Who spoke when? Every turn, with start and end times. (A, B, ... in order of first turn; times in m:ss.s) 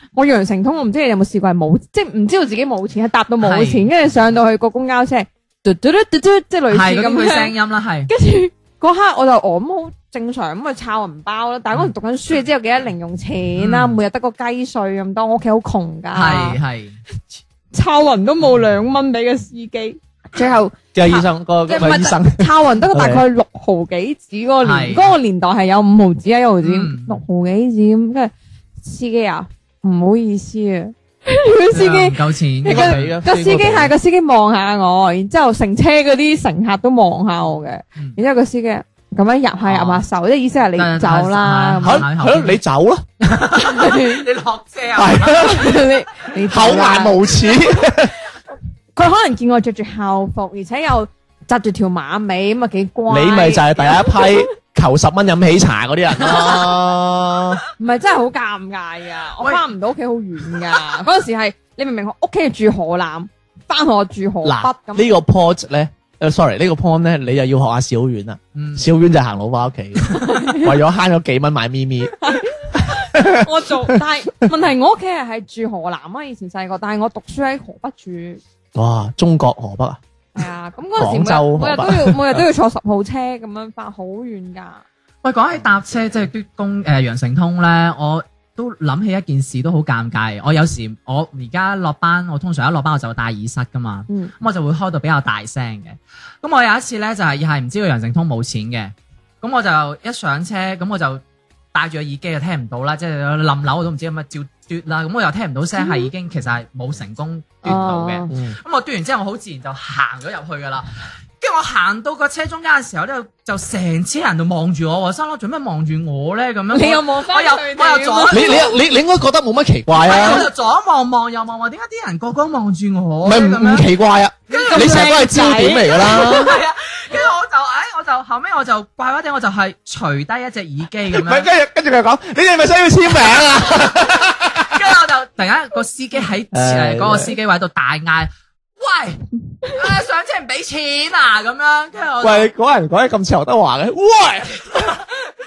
0:00.2-0:07.5 A
0:03.4-0:03.9 B
0:06.7-0:08.1 B
0:08.1-0:16.6 A
0:13.6-0:14.0 B
0:16.1-0:17.0 B
0:17.7-0:42.0 A
0:20.9-0:23.2 C
0:24.6-0:25.2 B
0:26.6-0:27.2 B
0:31.7-0:33.2 B
0:32.6-0:33.9 C
0:39.7-0:40.0 B
0:40.8-0:42.6 B
0:41.8-0:43.1 C
0:43.2-0:45.8 B
0:43.6-0:44.2 A
0:45.0-0:45.7 C
0:45.4-0:47.5 A
0:46.5-0:48.2 C
0:49.0-0:54.4 A
0:53.1-0:57.6 C
0:57.8-1:05.2 A
1:04.4-1:12.4 C
1:08.6-1:08.9 B
1:10.2-1:10.7 A
1:12.2-1:18.4 A
1:13.0-1:14.0 C
1:18.8-1:20.0 C
1:20.4-1:24.8 A
1:21.0-1:22.4 C
1:25.2-1:41.2 B
1:41.7-1:50.9 B
1:45.8-1:46.1 A
1:47.6-1:48.3 A
1:48.3-1:48.6 C
1:51.4-1:58.7 B
1:56.7-1:58.7 A
1:58.3-2:00.5 C
2:00.0-2:00.5 A
2:00.1-2:03.9 B
2:03.2-2:06.6 C
2:04.5-2:06.2 A
2:04.5-2:11.5 B
2:11.1-2:14.8 C
2:14.6-2:22.5 B
2:16.5-2:17.4 C
2:22.2-2:25.0 C